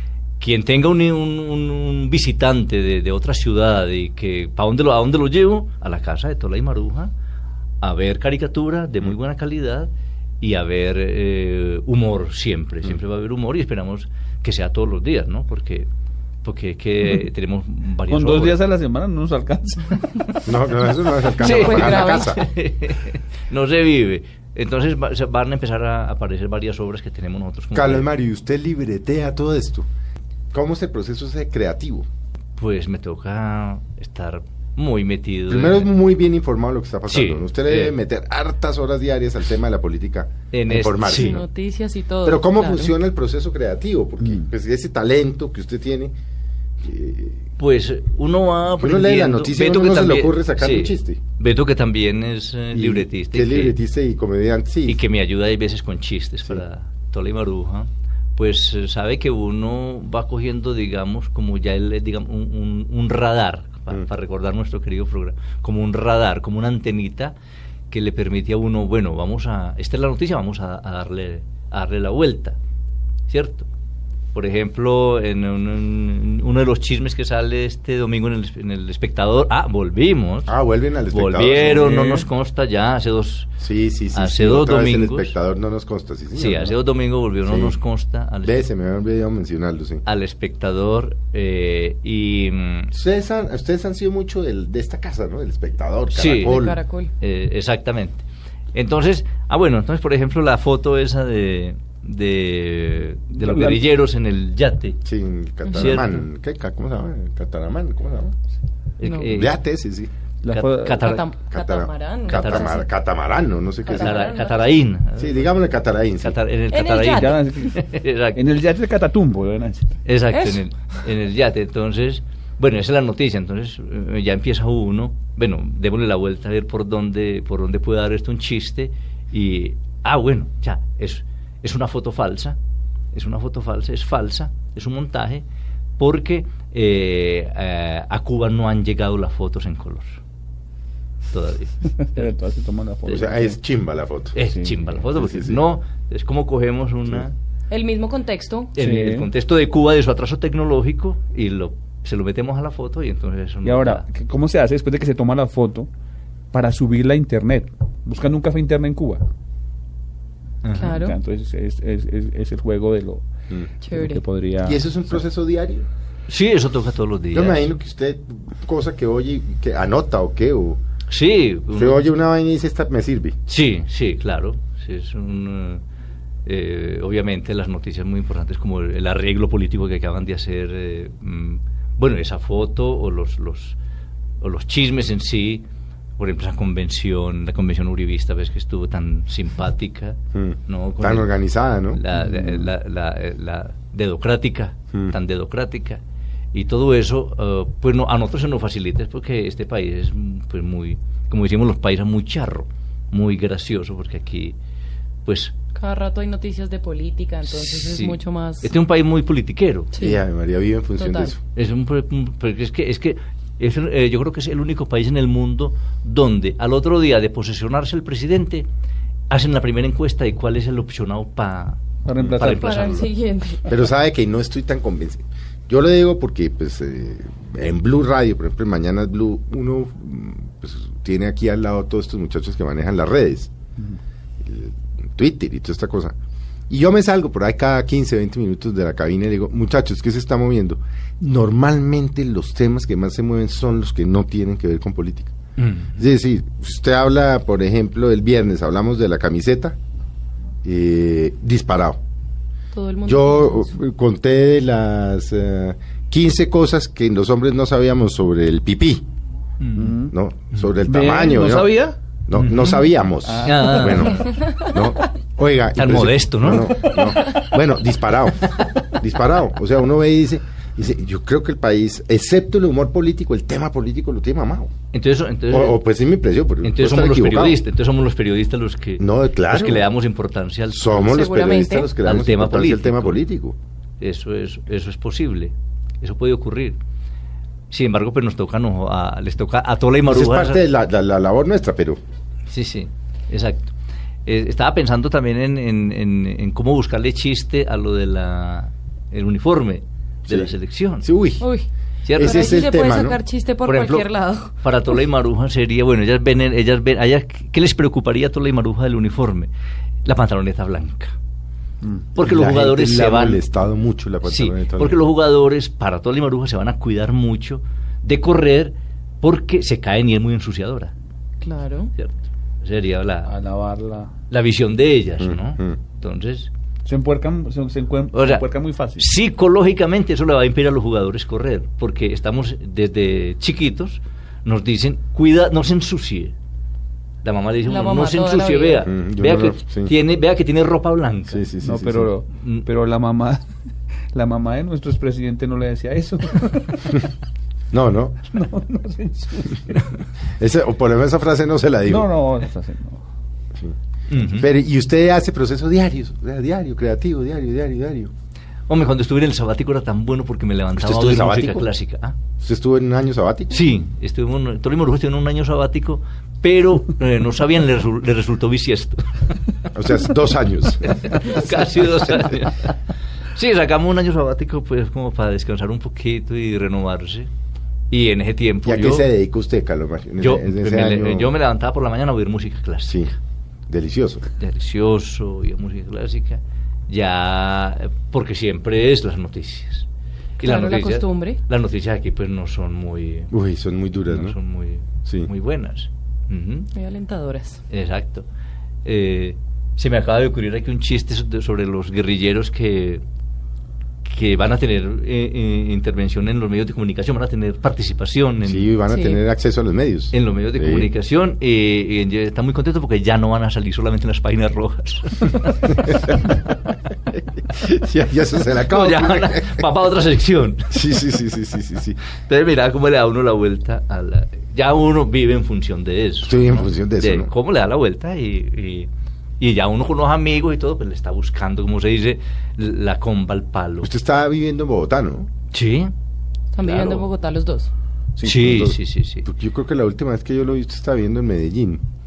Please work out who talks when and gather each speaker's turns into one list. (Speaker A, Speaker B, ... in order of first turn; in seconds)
Speaker A: 0.4-7.1, 7.8-9.9, 10.4-15.9, 16.4-18.6, 21.4-28.1, 32.6-35.9, 37.1-38.0, 40.5-41.4, 47.6-53.8, 54.9-67.3, 67.9-72.6, 73.3-73.7, 74.3-80.5, 81.1-83.5, 84.1-85.3, 86.3-88.7, 90.1-92.9, 96.1-96.7, 97.2-105.0, 105.7-106.2, 109.0-109.6, 110.5-111.3, 112.3-112.7, 113.9-115.5, 116.2-118.4, 120.0-132.6, 133.1-135.4, 136.0-140.2, 141.3-142.3, 144.3-147.3, 148.7-154.0, 160.6-161.0, 166.3-167.7, 171.1-172.0, 173.5-175.8, 176.5-183.8, 184.4-185.7, 186.2-191.3, 191.9-196.0, 196.5-204.6, 205.3-205.5, 207.5-209.9, 211.6-218.7, 219.3-223.1, 245.6-245.9, 259.6-259.9, 262.3-262.8, 263.4-264.3, 265.8-266.9, 274.9-275.8, 276.6-281.1, 282.0-283.2, 284.0-286.8, 287.7-290.6, 292.5-293.7, 294.3-301.1, 302.1-302.7, 303.6-304.1, 304.6-309.5, 310.1-311.1, 312.2-313.4, 314.2-320.9, 322.0-323.3, 324.3-326.5, 328.1-328.5, 329.0-336.3, 337.2-341.4, 342.4-342.6, 354.1-354.5, 358.7-362.2, 363.5-369.0, 370.8-372.8, 373.3-377.3, 377.9-379.1, 380.2-383.1, 384.4-389.9, 390.4-393.3, 394.1-396.7, 397.7-398.3, 398.9-403.0, 404.1-408.7, 410.1-416.0, 418.6-420.7, 422.2-428.9, 429.4-433.9, 435.5-435.9, 436.7-437.0, 438.2-439.2
Speaker B: 18.1-20.5, 81.8-82.3, 103.1-103.8, 110.4-111.1, 117.1-120.0, 142.0-143.6, 144.4-145.0, 148.8-149.3, 153.6-155.9, 156.5-159.2, 160.8-163.2, 163.9-165.2, 222.1-223.0, 259.8-260.1, 260.9-262.0, 263.2-264.5, 266.8-267.4, 311.8-312.1, 323.3-324.1, 326.9-329.1, 341.6-343.4, 344.1-347.1, 348.2-349.9, 351.9-353.0
Speaker C: 20.5-22.5, 27.7-29.9, 30.5-32.1, 35.5-41.5, 42.2-46.1, 46.8-47.5, 48.8-51.2, 52.7-55.0, 80.5-82.0, 83.6-86.7, 87.4-87.8, 88.4-90.0, 92.9-96.8, 105.0-108.3, 109.3-110.1, 111.5-114.3, 115.2-116.4, 143.1-144.4, 145.1-145.6, 164.6-165.9, 167.3-170.8, 171.7-173.4, 190.3-192.0, 210.0-211.4, 223.7-233.5, 234.4-236.2, 236.7-245.3, 246.0-249.8, 250.6-252.0, 253.1-259.1, 260.1-274.7, 275.5-277.6, 279.0-279.9, 280.7-283.6, 290.1-292.0, 300.3-301.4, 302.1-303.2, 312.2-315.0, 325.2-325.8, 338.8-339.9, 341.3-342.1, 347.7-348.2, 350.4-352.2, 354.2-358.1, 360.8-361.7, 362.4-363.6, 369.8-371.5, 378.6-381.3, 383.7-384.2, 393.3-394.4, 408.5-410.9, 417.6-419.6, 420.7-422.0, 426.2-427.3, 433.8-435.3, 438.2-441.8
Speaker D: 21.4-22.3, 41.1-42.9, 96.5-97.1, 109.0-109.3, 110.9-112.9, 113.8-114.8, 116.7-117.6, 120.3-120.6, 147.7-148.7, 160.7-161.2, 163.8-164.2, 205.8-208.7, 209.9-210.2, 211.0-211.3, 222.5-223.7, 252.7-253.7, 281.0-281.9, 301.4-301.7, 302.2-304.5, 321.4-321.9, 337.6-338.9, 390.4-391.4, 396.8-397.6, 408.9-409.2, 436.5-437.7